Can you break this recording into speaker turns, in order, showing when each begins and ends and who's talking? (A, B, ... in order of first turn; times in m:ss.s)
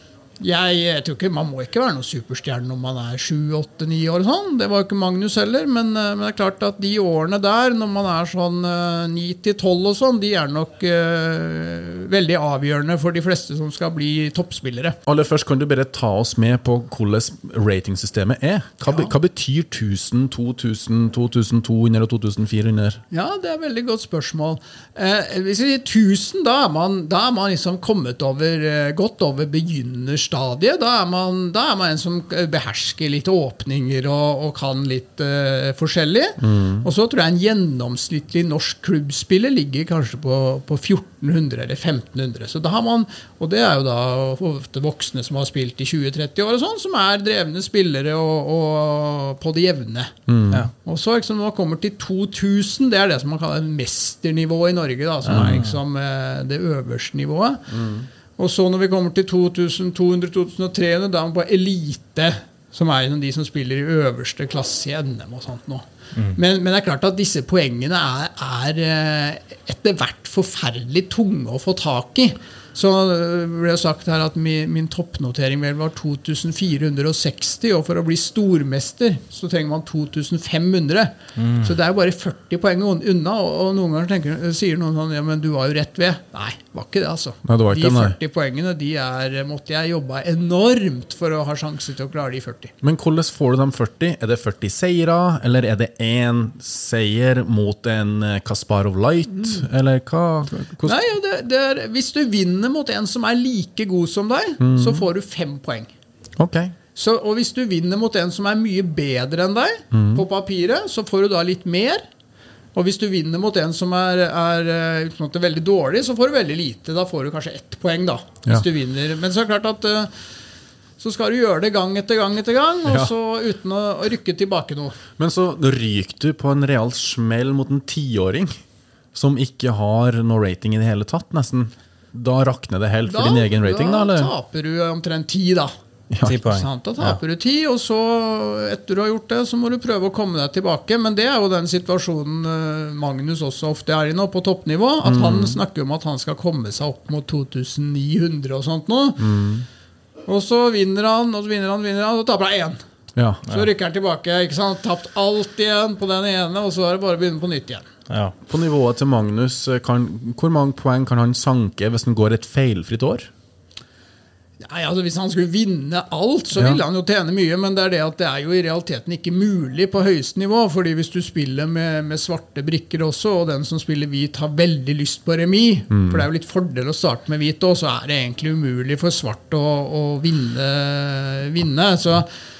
0:00.4-0:15.0 A
0:15.0-0:23.0 B
0:18.8-0:19.1 A
0:23.1-0:50.1 A
0:36.4-0:36.8 B
0:50.3-0:50.6 B
0:50.8-0:57.7 A
0:55.3-0:55.7 C
0:55.3-0:55.6 B
0:57.7-0:58.1 B
0:58.4-1:32.7 A
1:21.4-1:21.7 C
1:27.4-1:28.2 B
1:32.8-1:41.0 B
1:39.4-1:39.6 A
1:40.8-1:45.9 A
1:44.6-1:45.0 B
1:46.4-1:46.7 B
1:47.0-1:52.0 A
1:49.9-1:50.2 B
1:52.7-2:00.1 A
2:01.0-2:05.0 A
2:05.2-2:08.5 B
2:09.1-2:14.3 B
2:13.1-2:15.7 A
2:16.1-2:16.4 B
2:16.2-2:17.2 C
2:16.3-2:29.3 A
2:25.0-2:25.6 B
2:29.2-2:29.6 B
2:30.3-2:32.8 A
2:33.2-2:33.4 B
2:33.5-2:37.8 A
2:38.1-2:38.3 C
2:38.5-2:43.3 B
2:44.6-3:02.3 A
2:46.6-2:46.8 B
2:55.9-2:56.2 B